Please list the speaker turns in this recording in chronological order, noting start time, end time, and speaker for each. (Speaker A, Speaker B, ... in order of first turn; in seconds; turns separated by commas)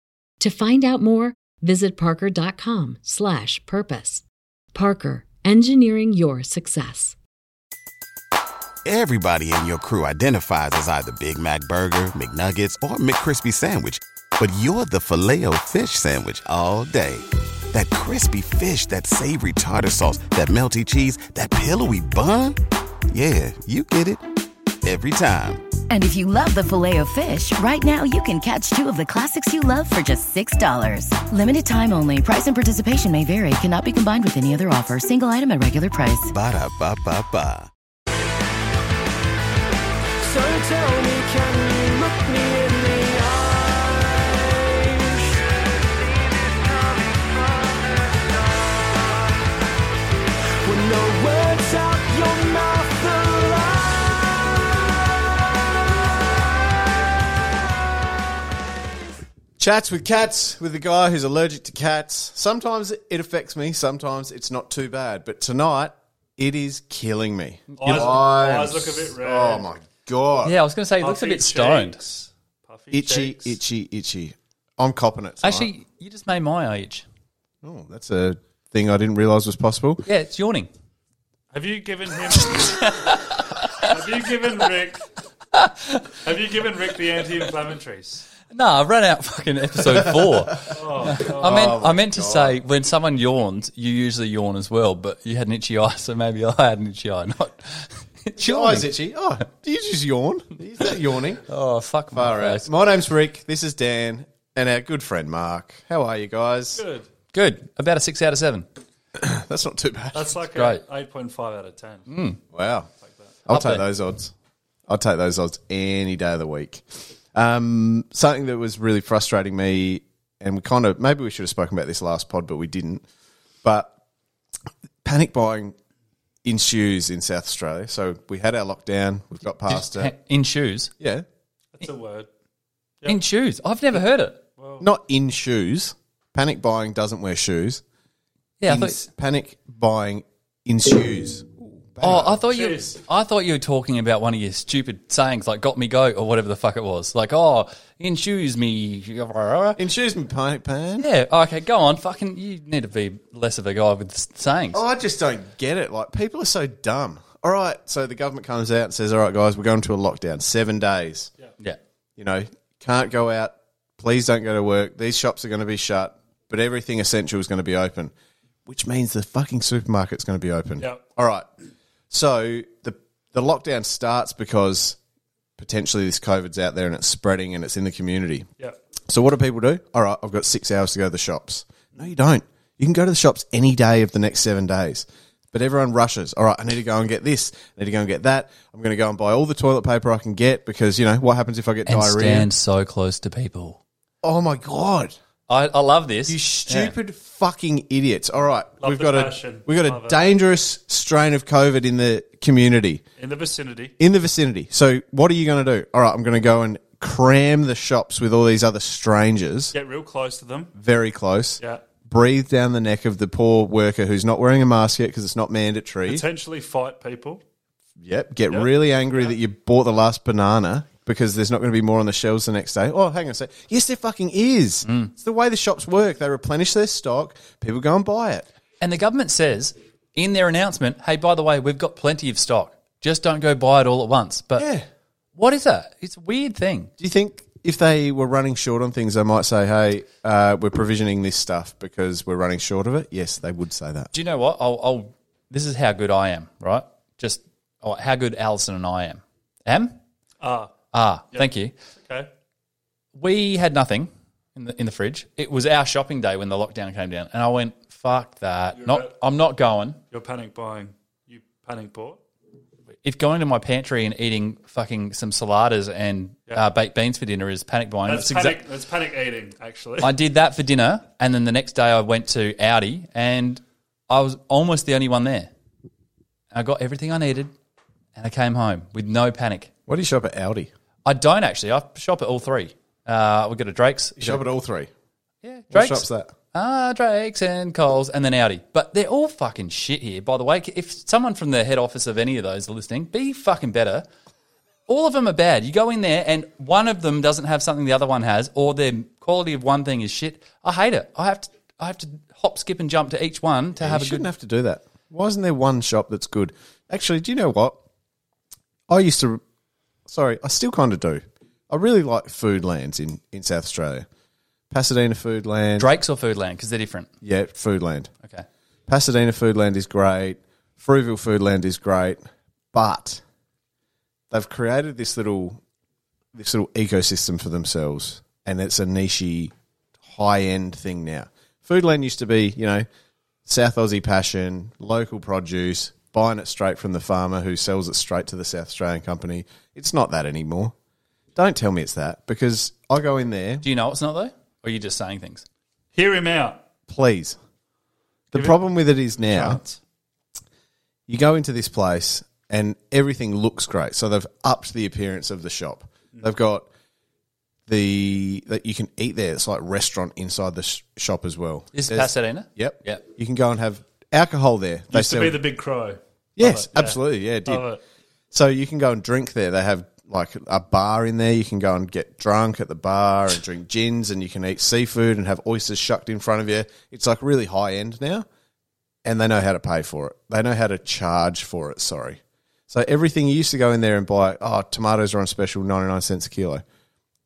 Speaker A: 0.4-7.2, Speaker B: 8.8-22.6, Speaker B: 23.1-24.2, Speaker B: 24.8-25.6, Speaker C: 25.9-36.3, Speaker B: 36.3-37.7, Speaker D: 40.2-49.4, Speaker D: 50.6-54.8, Speaker E: 59.6-70.5, Speaker F: 67.8-69.7, Speaker G: 70.4-72.0, Speaker F: 71.0-73.5, Speaker E: 72.9-75.7, Speaker G: 75.4-77.0, Speaker E: 77.6-80.0, Speaker G: 80.0-80.7, Speaker F: 81.5-83.0, Speaker G: 82.5-83.9, Speaker F: 83.9-85.0, Speaker G: 85.5-86.2, Speaker F: 86.2-88.3, Speaker G: 88.5-98.9, Speaker E: 89.8-92.6, Speaker F: 90.7-91.8, Speaker E: 98.4-101.4, Speaker G: 101.5-102.7, Speaker E: 102.1-106.8, Speaker F: 106.8-107.0, Speaker G: 107.3-108.7, Speaker E: 109.1-110.4, Speaker F: 110.1-112.0, Speaker G: 110.5-110.8, Speaker G: 112.1-112.4, Speaker E: 112.5-112.9, Speaker E: 113.5-114.3, Speaker G: 113.5-113.8, Speaker E: 114.9-123.0, Speaker E: 123.6-123.9, Speaker E: 125.0-125.7, Speaker E: 126.4-130.1, Speaker G: 129.7-130.9, Speaker E: 131.0-131.2, Speaker F: 131.8-132.3, Speaker G: 133.1-134.4, Speaker F: 134.6-134.8, Speaker E: 134.8-137.8, Speaker G: 138.6-139.1, Speaker E: 138.7-142.4, Speaker G: 142.0-149.8, Speaker F: 142.1-143.0, Speaker E: 149.8-151.1, Speaker G: 151.0-154.8, Speaker E: 154.7-161.3, Speaker E: 162.2-168.1, Speaker E: 168.7-171.5, Speaker E: 172.1-175.0, Speaker E: 175.6-178.5, Speaker E: 179.1-192.5, Speaker G: 191.8-193.8, Speaker E: 194.2-195.1, Speaker G: 195.5-196.9, Speaker E: 196.3-203.0, Speaker F: 198.8-200.2, Speaker F: 203.2-203.9, Speaker E: 204.0-209.7, Speaker F: 209.7-210.7, Speaker E: 210.7-216.2, Speaker F: 216.1-217.4, Speaker E: 218.0-228.5, Speaker F: 218.5-219.3, Speaker G: 224.8-225.1, Speaker G: 228.8-234.7, Speaker E: 234.6-234.8, Speaker G: 235.3-236.9, Speaker E: 237.0-244.1, Speaker G: 244.1-250.0, Speaker F: 250.4-250.7, Speaker G: 250.9-251.7, Speaker F: 251.3-252.3, Speaker G: 253.2-260.0, Speaker F: 258.7-259.1, Speaker F: 260.1-262.2, Speaker G: 263.0-268.6, Speaker F: 268.1-270.1, Speaker G: 270.0-275.5, Speaker G: 276.5-277.5, Speaker G: 278.1-279.7, Speaker E: 279.9-280.7, Speaker G: 281.0-284.4, Speaker E: 284.2-284.9, Speaker G: 285.4-294.1, Speaker E: 285.7-286.3, Speaker G: 294.9-304.2, Speaker E: 303.8-307.8, Speaker E: 308.9-309.4, Speaker E: 310.1-314.1, Speaker E: 314.7-315.9, Speaker G: 315.8-317.1, Speaker E: 317.2-318.1, Speaker E: 318.9-323.2, Speaker E: 324.3-325.6, Speaker E: 326.3-332.9, Speaker E: 333.4-340.7, Speaker E: 341.4-343.6, Speaker G: 343.6-345.4, Speaker F: 345.9-346.6, Speaker E: 346.9-347.4, Speaker E: 348.3-349.6, Speaker F: 348.3-349.8, Speaker E: 351.1-356.7, Speaker E: 357.7-365.4, Speaker G: 361.7-363.0, Speaker F: 364.9-367.8, Speaker E: 366.4-367.7, Speaker E: 368.3-378.2, Speaker E: 379.0-386.6